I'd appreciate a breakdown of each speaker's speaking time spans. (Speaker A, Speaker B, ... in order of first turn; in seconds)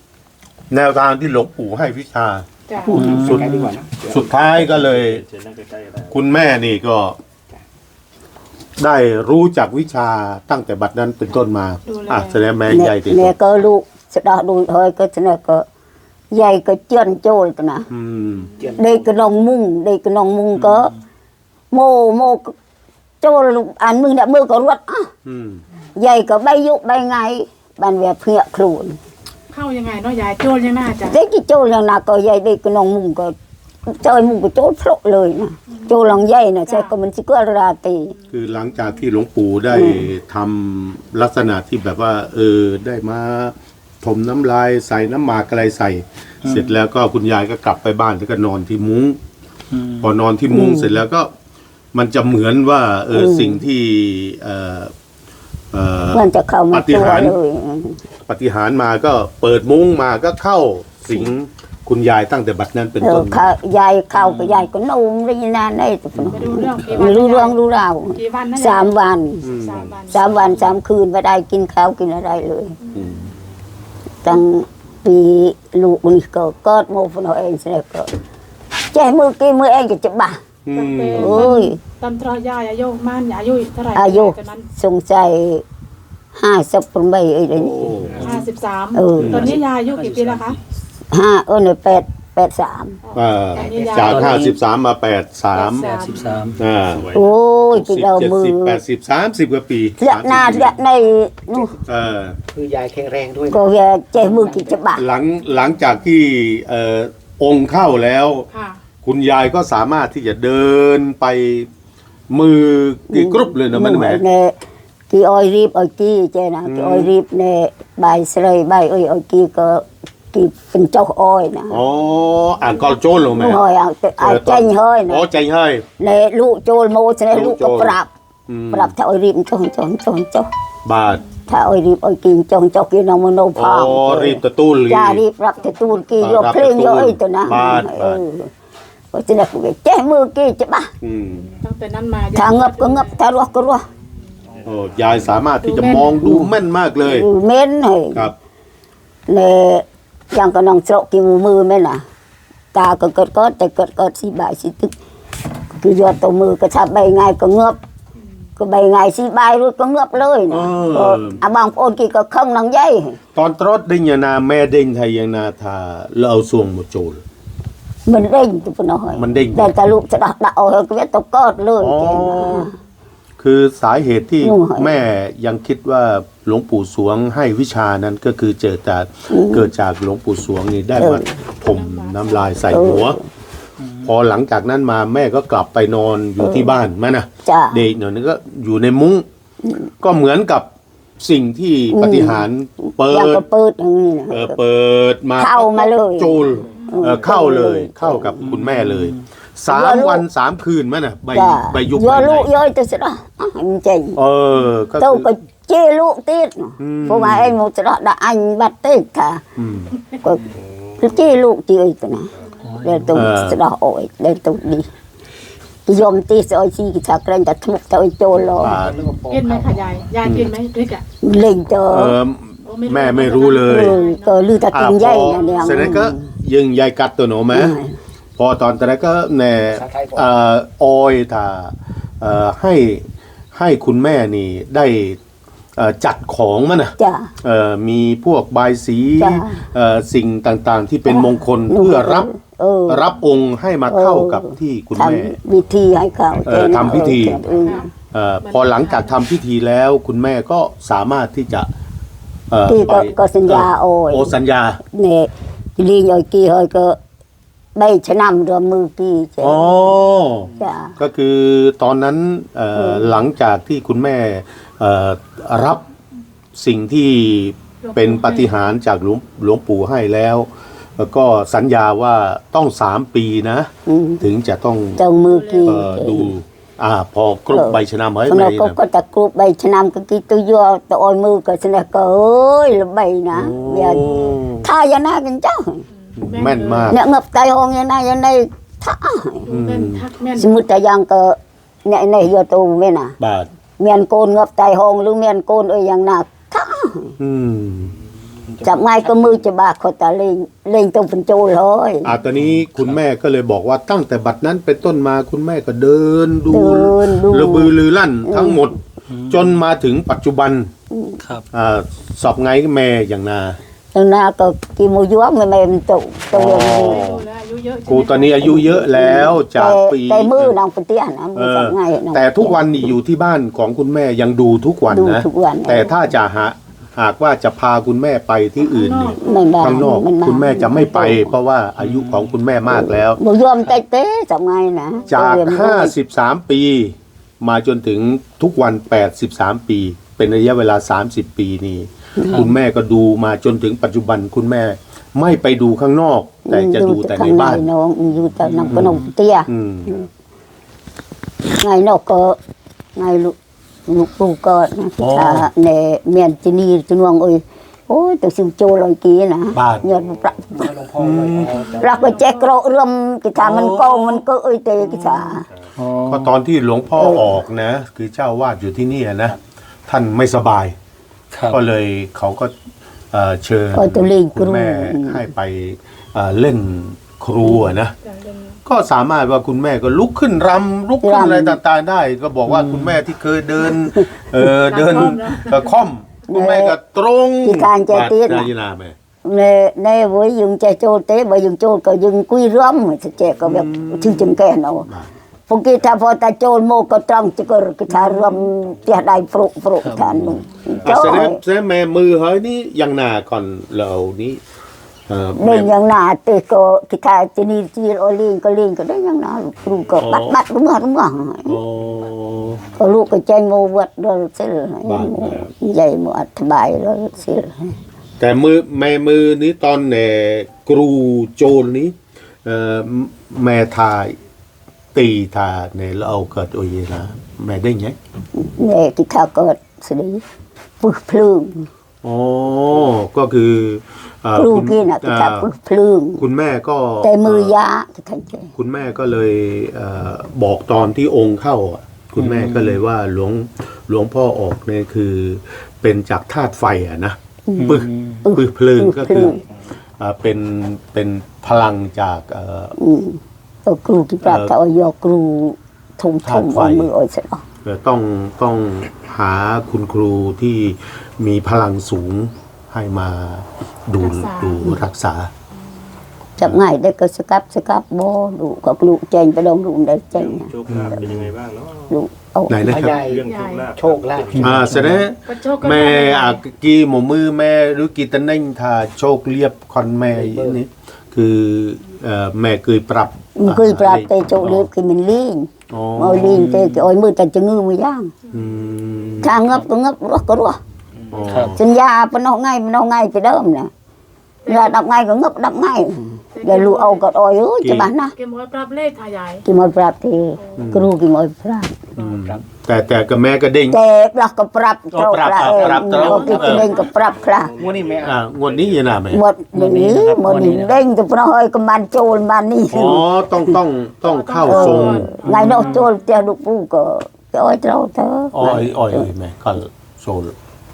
Speaker A: 0.7-5.2, 6.1-7.2, 8.8-13.3, 17.9-18.6, 25.2-25.6, 38.3-49.2, 50.0-51.3, 51.9-54.9, 55.7-57.4, 58.3-63.5, 64.2-64.6, 69.4-70.3, 72.9-73.3, 80.7-81.5, 87.6-88.4, 89.2-89.6, 93.2-95.9, 96.6-97.2, 97.7-100.8, 101.9-102.4, 105.0-108.5, 109.0-111.7, 112.3-114.2, 116.7-117.1, 121.7-123.6, 124.2-125.9, 127.3-128.0, 128.5-128.9, 130.8-131.3, 133.6-135.2, 136.2-138.2, 141.0-141.5, 144.7-147.3, 160.5-161.4, 163.3-167.2, 169.2-169.7, 171.8-172.7, 173.4-183.2, 184.0-189.3, 190.0-190.7, 191.2-193.4, 194.3-202.5, 204.2-205.3, 206.8-207.6, 209.6-209.9, 213.1-213.6, 218.6-219.0, 220.2-220.5, 221.9-224.0, 224.7-227.8, 228.4-235.2, 235.8-242.3, 242.9-245.4, 246.5-251.7, 252.5-254.8, 259.4-265.9, 266.6-273.7, 274.2-275.0, 275.6-278.8, 283.3-284.7, 286.2-287.0, 289.5-290.1, 293.2-293.5, 297.2-298.0, 302.0-310.7, 311.5-313.6, 316.3-317.2, 317.9-320.6, 321.4-333.2, 335.1-347.7, 348.7-350.0, 355.0-355.5, 359.6-359.9, 361.0-361.6, 363.4-364.2, 364.8-365.4, 366.1-370.8, 371.5-372.5, 373.1-377.9, 378.7-388.9, 393.4-395.1, 400.8-404.4, 405.1-405.7, 409.9-410.4, 411.5-412.6, 414.9-415.5, 418.2-424.2, 424.9-428.0, 432.0-435.5, 436.2-437.6, 438.6-449.4, 450.0-452.8, 454.2-454.6, 456.2-456.9, 457.6-465.3, 470.7-471.3, 472.5-473.1, 474.4-484.7, 485.7-486.5, 488.3-489.6, 491.1-491.6, 497.6-497.9, 500.6-500.9, 502.0-503.8, 504.9-506.9, 508.0-509.2, 512.7-515.2, 518.3-520.3
Speaker B: 2.7-3.0, 11.9-12.4, 29.5-31.2, 35.7-36.9, 66.3-67.6, 68.1-69.0, 69.5-70.4, 80.7-84.7, 88.1-90.6, 93.0-94.5, 95.5-96.4, 108.5-108.8, 141.6-143.2, 145.6-146.4, 181.6-182.8, 219.3-221.0, 222.7-226.0, 247.5-247.9, 248.4-249.2, 267.8-268.7, 275.2-275.9, 286.0-287.0, 289.5-290.6, 316.5-318.6, 328.6-329.9, 335.0-335.3, 361.5-362.5, 378.0-378.6, 384.6-385.9, 464.0-464.8, 473.3-473.7, 475.2-476.4, 494.4-494.8, 496.4-497.1, 498.1-499.5, 500.4-500.7, 514.0-515.9
Speaker C: 2.8-4.3, 18.6-19.1, 101.5-101.8, 102.5-104.8, 218.4-220.1, 229.7-230.4, 298.5-299.4, 360.5-362.2, 472.6-475.1, 480.1-480.6, 502.0-502.4, 505.7-506.7, 507.6-508.2
Speaker D: 2.9-3.7, 46.4-46.7, 49.7-50.1, 94.0-94.6, 95.8-96.6, 183.8-184.1, 198.4-199.2, 212.6-213.3, 302.3-303.0, 309.1-309.6, 311.2-311.5, 331.8-332.3, 342.3-342.5, 348.4-349.1, 365.8-366.3, 371.3-371.6, 382.5-383.0, 399.8-400.4, 442.2-442.8, 447.6-448.3, 474.4-475.0, 486.2-486.9, 491.3-491.6, 509.5-510.8, 515.2-515.9
Speaker E: 4.4-6.5, 96.8-97.3, 144.6-145.4, 210.5-211.3, 212.4-212.7, 359.6-360.7, 365.5-365.8, 400.7-401.2, 470.1-471.9, 472.7-474.7, 506.1-509.0
Speaker F: 12.7-15.7, 16.3-17.9, 18.8-20.9, 21.7-22.5, 23.2-25.1, 26.0-29.0, 31.1-33.4, 33.9-38.1, 39.7-40.0, 50.5-50.9, 53.1-53.6, 56.1-58.0, 63.0-69.5, 70.1-72.8, 74.2-78.1, 78.9-80.4, 81.2-81.8, 84.0-85.6, 86.4-87.9, 89.0-89.5, 91.1-93.0, 97.1-98.8, 100.0-101.7, 103.5-105.0, 113.1-114.6, 115.1-121.8, 123.3-125.3, 126.0-128.1, 128.7-130.5, 131.5-138.5, 139.1-140.9, 142.3-143.9, 146.2-146.5, 147.0-148.3, 149.3-152.0, 152.7-154.9, 155.8-157.8, 158.6-163.2, 168.1-172.7, 174.4-174.9, 179.3-179.7, 181.0-181.2, 182.7-183.2, 186.4-186.8, 187.4-187.8, 191.9-194.6, 195.4-198.4, 199.7-200.2, 201.3-204.2, 205.0-209.4, 211.0-212.3, 212.8-214.9, 215.9-218.8, 221.2-222.2, 223.7-226.2, 227.5-227.9, 237.0-237.3, 239.2-239.6, 241.1-243.0, 243.9-247.9, 252.7-254.3, 254.9-257.0, 257.8-259.8, 260.6-260.9, 262.8-263.1, 273.9-274.2, 275.0-276.3, 277.5-284.1, 284.6-285.8, 286.9-289.5, 290.4-293.2, 293.8-297.1, 298.6-302.1, 306.5-307.7, 308.2-308.6, 310.9-311.2, 313.9-317.0, 318.4-322.6, 324.9-325.9, 329.2-331.3, 333.2-335.9, 342.2-342.5, 346.5-349.9, 351.6-352.4, 353.0-353.4, 353.9-360.4, 361.8-365.4, 367.0-367.4, 373.7-375.2, 381.0-381.6, 386.3-386.8, 387.4-388.5, 389.2-394.9, 395.5-401.4, 405.4-411.6, 412.8-417.8, 428.4-430.2, 430.8-431.7, 434.4-436.2, 437.0-438.5, 447.5-449.4, 452.8-457.4, 466.4-470.5, 471.9-472.7, 483.4-488.1, 489.2-490.6, 491.6-493.7, 494.5-498.1, 499.4-501.7, 503.7-507.5, 509.1-513.1, 514.5-519.1